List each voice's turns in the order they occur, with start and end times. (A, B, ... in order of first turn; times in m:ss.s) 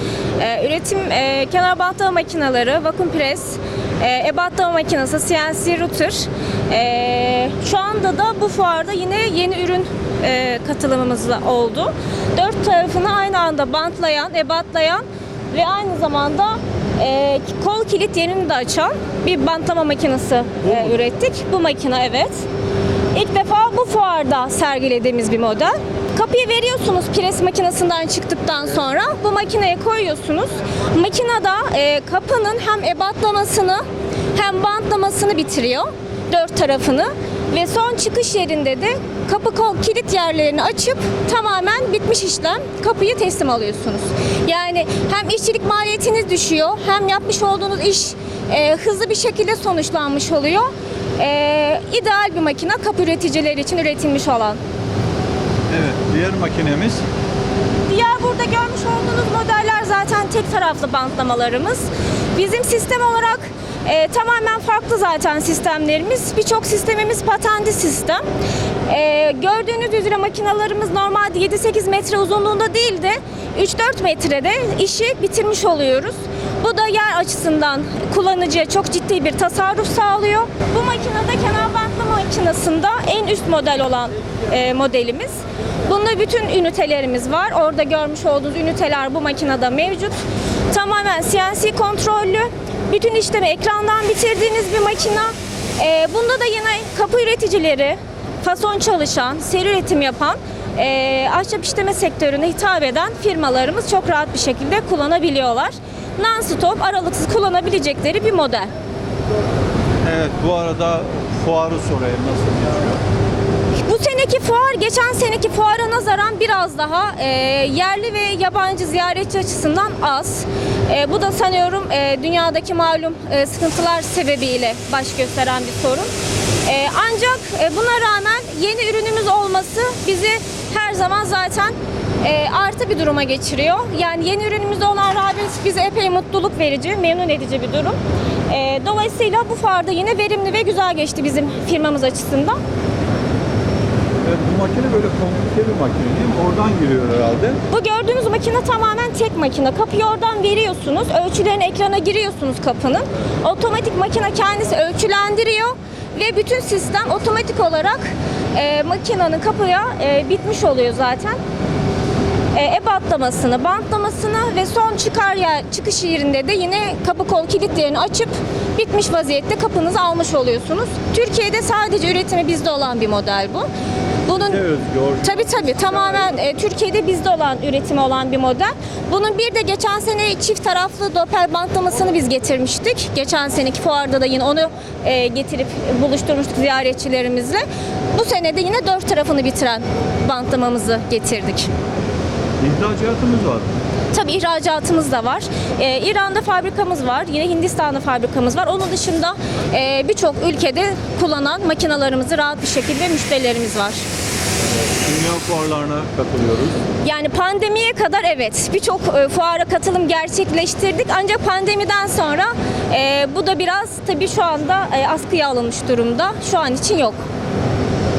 0:00.4-0:22.3 A
0:20.6-0:20.9 B
0:23.1-0:33.8 A
0:34.3-0:54.6 A
0:55.7-0:57.0 B
0:57.9-1:08.2 A
1:08.9-1:25.3 A
1:25.8-1:30.2 A
1:30.7-1:48.7 A
1:50.0-1:53.0 B
1:53.8-2:06.1 A
2:06.6-2:22.6 A
2:24.2-2:27.6 B
2:27.7-2:41.4 A
2:42.5-2:53.7 A
2:54.2-2:54.6 A
2:54.3-2:56.3 B
2:55.2-3:07.6 A
3:08.1-3:11.7 A
3:12.6-3:13.7 B
3:14.1-3:24.0 A
3:25.0-3:26.8 B
3:27.0-3:37.2 A